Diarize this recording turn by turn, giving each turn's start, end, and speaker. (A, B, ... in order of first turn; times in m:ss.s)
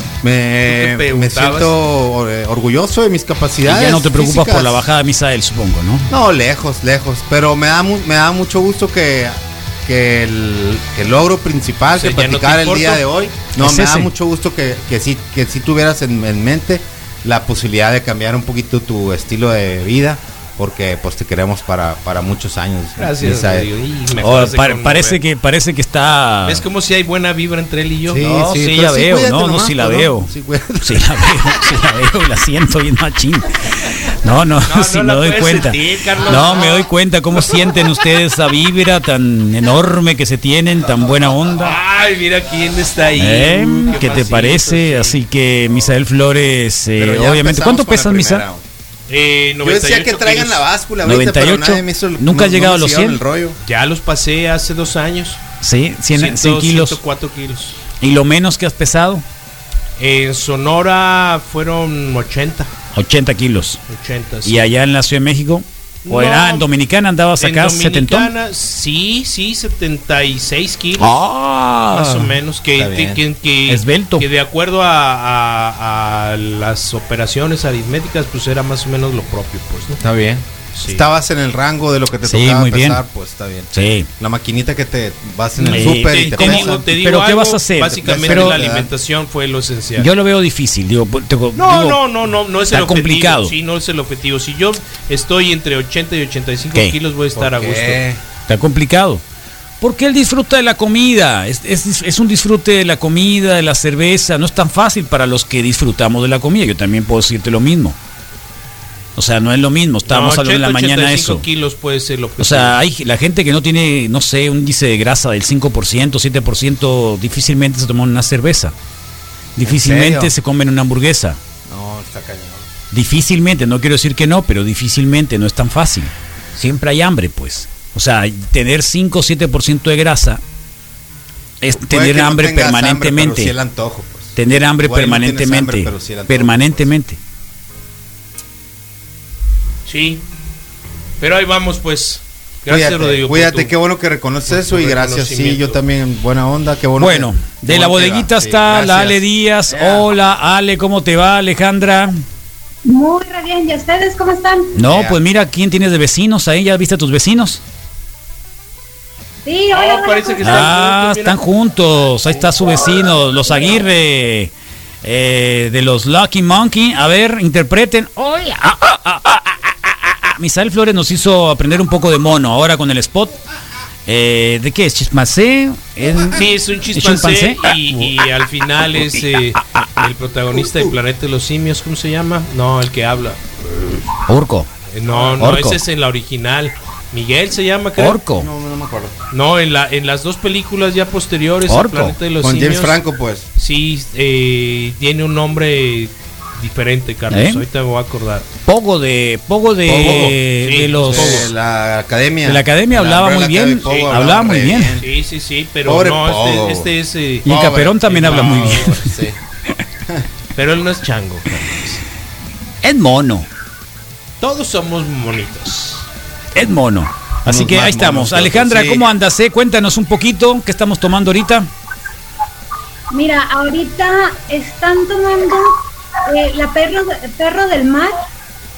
0:00.2-0:04.9 A
0:00.6-0:01.7 B
0:03.6-0:06.1 C
0:06.1-0:23.7 A
0:11.9-0:13.0 B
0:13.6-0:14.1 C
0:23.0-0:25.2 B
0:24.2-0:26.6 C
0:26.4-0:28.2 B
0:28.1-0:31.7 A
0:28.2-0:30.3 C
0:30.8-0:41.8 C
0:34.6-0:37.8 B
0:41.5-0:45.2 B
0:43.2-0:48.5 C
0:47.0-0:48.6 A
0:49.1-0:50.6 B
0:49.6-0:53.6 A
0:51.0-0:53.2 C
0:53.6-0:55.4 B
0:55.6-0:57.0 C
0:56.1-0:57.8 B
0:58.0-0:59.2 C
1:00.0-1:02.7 B
1:02.9-1:03.8 C
1:03.9-1:04.7 B
1:04.4-1:08.3 C
1:06.0-1:06.7 B
1:07.4-1:11.1 B
1:11.0-1:12.4 C
1:11.9-1:20.0 B
1:12.8-1:13.2 A
1:13.7-1:14.3 C
1:20.0-1:27.0 A
1:20.7-1:21.0 B
1:22.2-1:23.0 C
1:23.7-1:24.1 C
1:25.6-1:30.1 B
1:25.7-1:28.6 C
1:28.0-1:28.9 A
1:30.0-1:32.0 C
1:31.5-1:38.0 B
1:32.7-1:33.5 C
1:37.3-1:38.2 A
1:38.5-1:39.2 C
1:39.8-1:48.0 C
1:49.2-1:51.4 C
1:50.1-1:52.8 B
1:52.4-1:58.7 C
1:59.6-2:01.4 C
1:59.6-2:00.3 A
2:01.7-2:02.7 A
2:02.9-2:10.4 C
2:11.6-2:13.5 C
2:11.7-2:16.9 A
2:14.3-2:17.2 C
2:19.8-2:20.2 B
2:21.2-2:23.7 B
2:22.7-2:30.1 A
2:24.4-2:25.8 B
2:27.0-2:32.2 C
2:32.8-2:34.7 D
2:34.7-2:37.6 C
2:34.8-2:35.2 A
2:39.4-2:40.7 D
2:39.7-2:41.4 B
2:40.4-2:44.5 C
2:45.0-2:53.4 C
2:54.0-2:56.4 C
2:56.3-3:03.4 B
2:56.9-2:58.1 C
2:59.7-3:00.1 C
3:04.3-3:04.7 C
3:04.9-3:08.2 B
3:05.1-3:05.5 A
3:05.4-3:05.8 C
3:08.0-3:08.5 C
3:08.3-3:09.2 A
3:09.3-3:13.0 B
3:11.6-3:12.2 C
3:12.3-3:13.5 A
3:13.6-3:18.4 B
3:17.3-3:17.6 C
3:18.6-3:21.4 C
3:19.8-3:20.4 A
3:19.9-3:21.5 B
3:21.0-3:25.0 A
3:22.4-3:25.0 C
3:23.8-3:24.2 B
3:25.0-3:27.5 B
3:25.8-3:26.9 A
3:27.4-3:29.1 C
3:27.5-3:29.4 A
3:28.1-3:29.0 B
3:30.5-3:32.0 B
3:32.8-3:33.5 C
3:34.4-3:36.1 B
3:36.5-3:41.7 C
3:37.4-3:39.1 A
3:43.1-3:48.2 D